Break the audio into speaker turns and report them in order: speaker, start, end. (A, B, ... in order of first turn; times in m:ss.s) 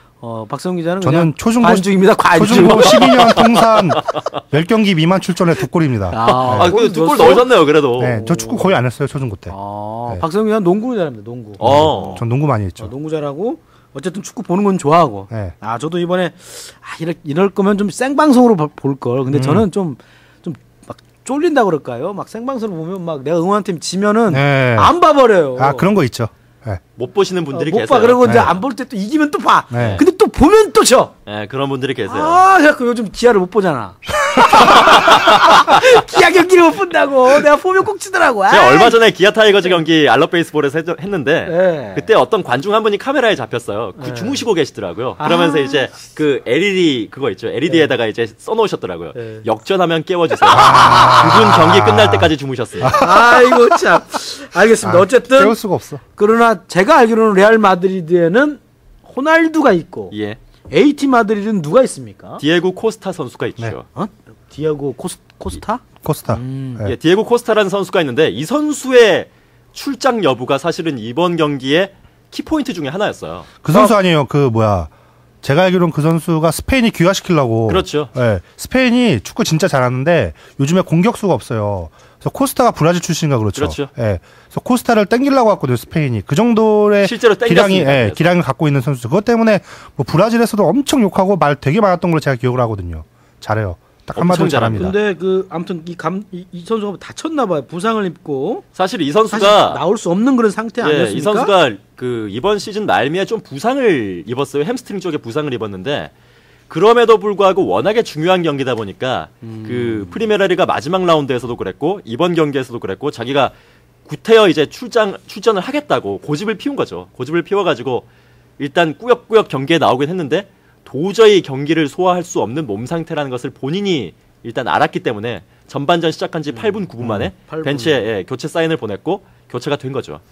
0:00.2-0:03.4 A
0:01.0-0:06.7 B
0:02.5-0:04.0 C
0:06.1-0:07.5 A
0:06.3-0:08.2 C
0:08.0-0:09.5 B
0:08.1-0:08.8 A
0:09.5-0:12.2 A
0:11.6-0:12.2 C
0:11.6-0:12.9 B
0:12.8-0:25.9 A
0:15.3-0:15.6 B
0:19.3-0:19.7 B
0:24.3-0:24.9 B
0:25.6-0:26.8 B
0:27.0-0:28.5 C
0:27.5-0:31.1 A
0:28.2-0:28.5 B
0:29.7-0:30.0 B
0:29.8-0:30.0 C
0:31.3-0:32.4 C
0:32.1-0:39.0 A
0:34.5-0:36.0 C
0:38.5-0:53.2 C
0:41.5-0:42.1 A
0:44.0-0:44.4 A
0:45.2-0:45.9 A
0:49.1-0:49.4 A
0:50.5-0:51.4 A
0:50.5-0:53.8 B
0:52.9-0:55.6 A
0:54.8-0:56.0 B
0:56.2-1:00.1 A
1:00.1-1:00.4 C
1:00.7-1:02.4 A
1:02.4-1:03.9 C
1:04.0-1:06.9 A
1:06.0-1:06.9 B
1:06.8-1:13.5 C
1:13.6-1:14.9 B
1:15.4-1:35.0 B
1:17.7-1:18.1 C
1:23.6-1:23.9 C
1:27.0-1:28.3 C
1:34.1-1:35.0 C
1:34.7-1:38.6 A
1:38.8-1:39.8 C
1:39.3-1:41.5 A
1:40.8-1:46.1 C
1:46.7-1:53.5 C
1:49.4-1:50.2 A
1:54.1-1:58.1 C
1:58.6-2:10.2 C
2:06.5-2:06.8 A
2:07.0-2:07.3 B
2:07.4-2:08.1 A